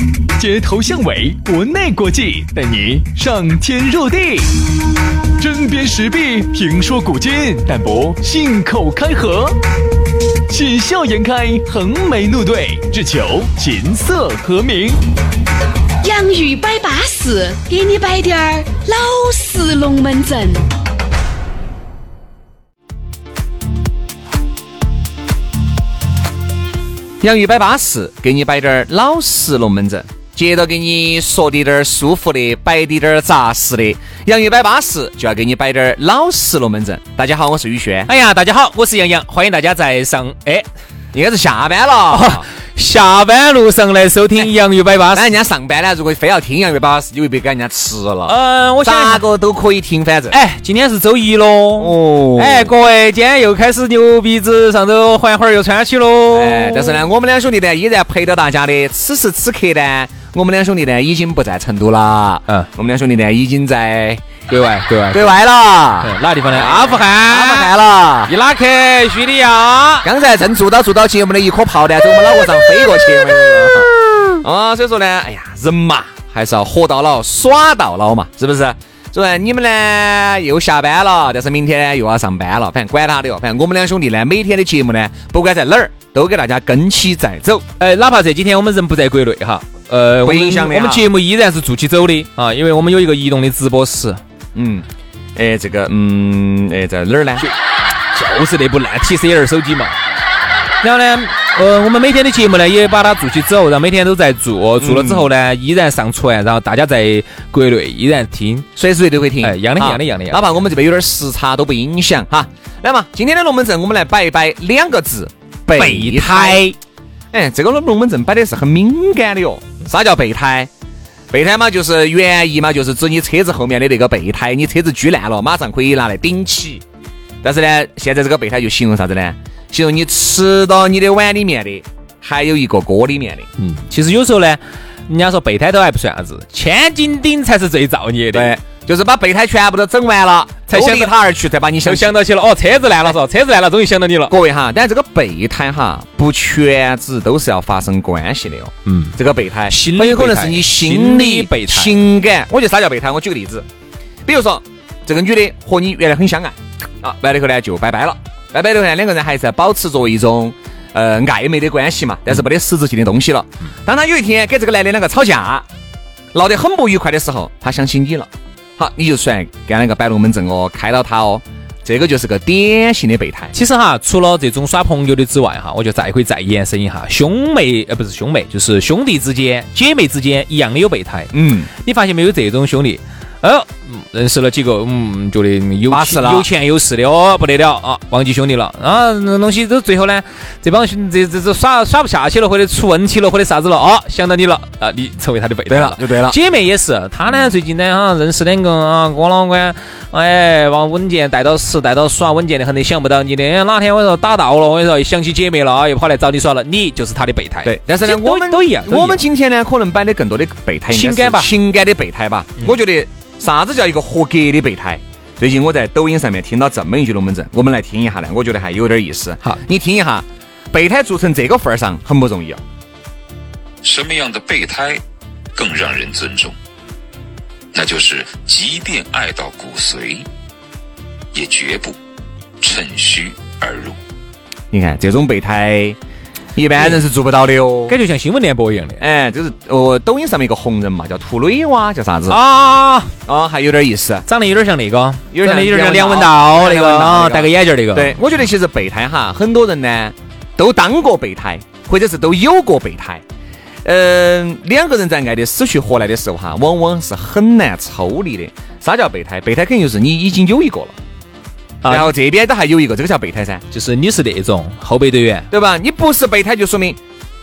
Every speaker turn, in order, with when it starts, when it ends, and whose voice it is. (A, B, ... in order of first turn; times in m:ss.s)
0:00.4-0:04.5 A
0:05.4-0:09.6 A
0:10.5-0:15.0 A
0:16.0-0:20.6 B
0:27.2-0:38.1 C
0:38.1-0:40.7 D
0:41.1-0:42.5 C
0:42.1-0:45.3 D
0:45.1-0:50.4 C
0:48.2-0:49.3 D
0:50.3-0:57.0 D
0:51.8-0:52.7 C
0:56.3-1:04.2 C
1:04.5-1:05.4 D
1:05.1-1:08.3 C
1:06.0-1:07.7 D
1:08.3-1:10.1 D
1:10.0-1:27.6 C
1:27.8-1:34.2 D
1:30.2-1:31.1 C
1:34.6-1:37.5 C
1:38.1-1:40.0 D
1:40.8-1:48.7 D
1:44.8-1:45.3 C
1:48.8-1:56.7 C
1:49.4-1:50.5 D
1:55.7-1:56.8 D
1:57.3-2:00.7 C
2:01.3-2:06.8 C
2:07.4-2:13.5 C
2:13.6-2:18.6 D
2:18.3-2:22.2 C
2:20.7-2:21.2 D
2:21.8-2:24.4 D
2:24.3-2:33.7 C
2:28.9-2:32.0 D
2:34.2-2:45.7 C
2:46.3-2:53.6 C
2:53.5-3:29.2 D
3:01.3-3:01.7 C
3:05.9-3:06.5 C
3:15.7-3:16.4 C
3:27.6-3:42.6 C
3:30.9-3:31.5 D
3:43.8-3:45.0 E
3:45.6-3:46.6 E
3:47.7-3:50.3 E
3:51.3-3:52.0 E
3:52.6-3:54.0 E
3:54.7-3:56.0 C
3:56.6-3:58.0 C
3:57.9-3:59.0 D
3:59.0-4:02.4 C
4:02.3-4:03.1 D
4:03.3-4:04.3 C
4:04.3-4:08.2 D
4:05.3-4:13.2 C
4:13.8-4:21.0 C
4:21.8-4:22.1 D
4:21.9-4:23.6 C
4:23.7-4:25.5 D
4:25.5-4:27.0 C